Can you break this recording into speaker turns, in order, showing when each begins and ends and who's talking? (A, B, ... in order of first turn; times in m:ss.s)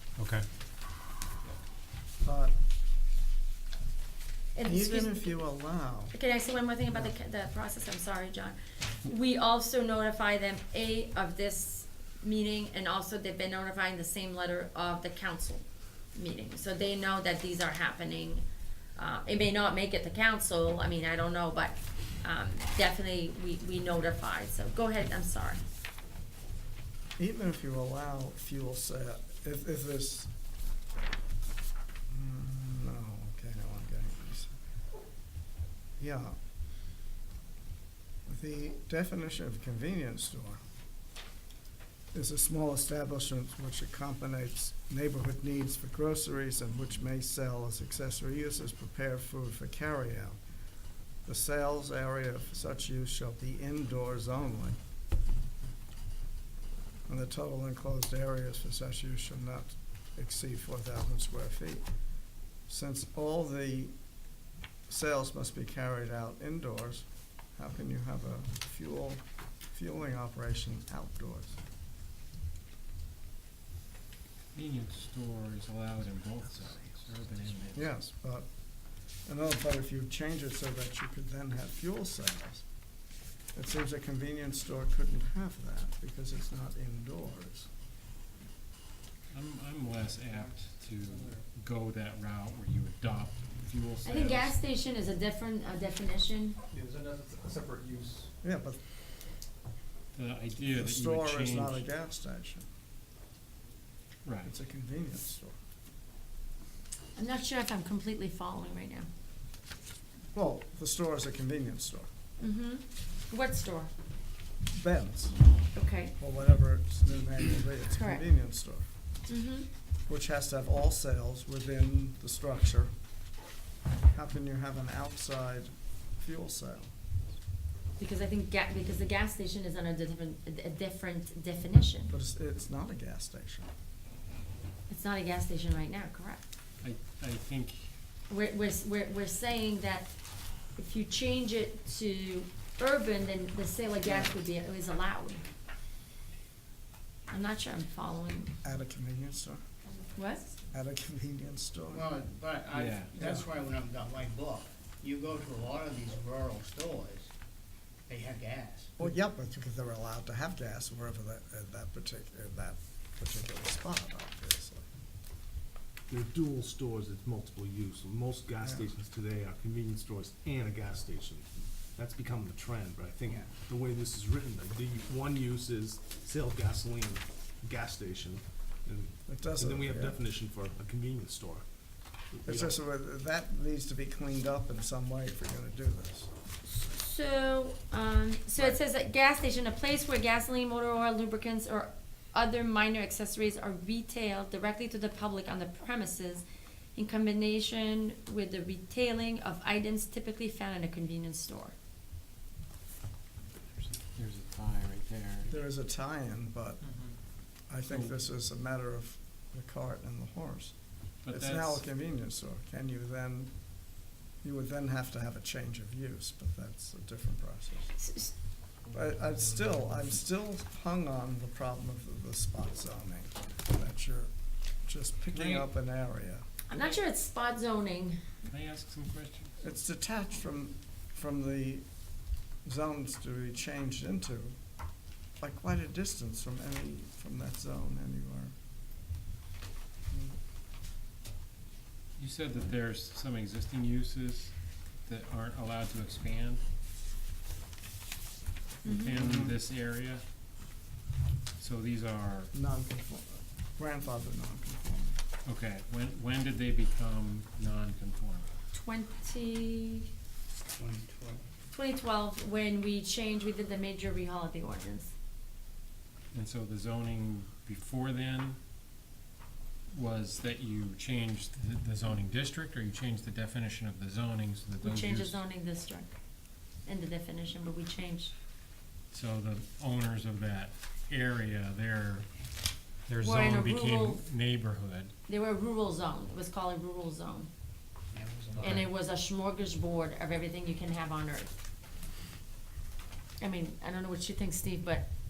0:00.2-0:00.4 A
0:02.2-0:02.5 B
0:04.5-0:05.4 C
0:04.6-0:06.2 B
0:06.1-0:18.4 C
0:19.0-0:25.6 C
0:27.2-0:30.3 B
0:32.1-0:34.5 B
0:36.0-0:36.4 B
0:38.3-0:40.6 B
0:42.1-0:50.4 B
0:51.2-0:54.8 B
0:57.1-1:01.8 B
1:02.7-1:03.9 B
1:04.9-1:07.0 B
1:07.6-1:11.6 B
1:14.5-1:17.9 A
1:17.7-1:18.5 B
1:19.2-1:22.6 B
1:23.5-1:27.7 B
1:29.3-1:34.5 A
1:30.2-1:30.5 D
1:31.0-1:31.4 D
1:34.0-1:36.6 C
1:36.7-1:38.3 D
1:38.4-1:38.8 B
1:40.1-1:41.8 A
1:40.6-1:42.6 B
1:44.2-1:44.5 A
1:44.4-1:45.5 B
1:47.1-1:49.1 C
1:50.3-1:52.1 B
1:52.4-1:53.9 C
1:54.7-1:55.4 B
1:55.7-1:56.1 C
1:56.2-1:58.9 B
1:58.0-1:58.2 C
1:59.3-1:59.7 C
2:00.1-2:02.9 B
2:04.1-2:06.9 B
2:08.0-2:12.1 C
2:12.1-2:13.7 B
2:14.9-2:16.4 C
2:16.8-2:17.9 A
2:18.3-2:20.1 C
2:20.7-2:25.4 C
2:24.1-2:24.3 B
2:27.3-2:28.5 C
2:28.6-2:29.6 B
2:30.2-2:30.5 C
2:30.7-2:32.1 B
2:31.9-2:37.3 E
2:32.7-2:33.2 A
2:33.2-2:33.4 B
2:38.1-2:38.9 E
2:39.0-2:44.8 B
2:46.1-3:01.6 F
2:59.3-3:00.2 B
3:02.3-3:02.8 F
3:02.4-3:06.3 B
3:06.6-3:21.7 C
3:23.6-3:25.5 A
3:25.5-3:30.8 B
3:27.9-3:28.1 A
3:31.2-3:31.8 A
3:31.3-3:33.5 B
3:34.4-3:37.9 B
3:38.0-3:38.3 C
3:38.9-3:44.3 B
3:44.8-3:46.4 B
3:45.3-3:45.7 A
3:46.7-3:48.2 C
3:48.5-3:49.5 A
3:49.6-3:51.8 B
3:52.6-3:54.6 B
3:55.4-3:58.5 B
4:02.2-4:06.6 A
4:08.8-4:10.2 A
4:08.8-4:09.1 C
4:09.1-4:09.6 B
4:11.6-4:12.5 A
4:12.5-4:15.2 B
4:15.4-4:18.5 A
4:18.7-4:20.1 C
4:20.8-4:21.4 E
4:21.7-4:25.1 C
4:26.3-4:28.6 A
4:29.9-4:35.4 A
4:34.8-4:36.1 C
4:36.8-4:38.3 C
4:39.1-4:42.3 A
4:43.1-4:45.1 A
4:43.2-4:44.2 C
4:45.3-4:47.5 C
4:48.1-4:48.9 E
4:48.6-4:48.9 A
4:48.6-4:51.5 C
4:53.4-4:55.1 C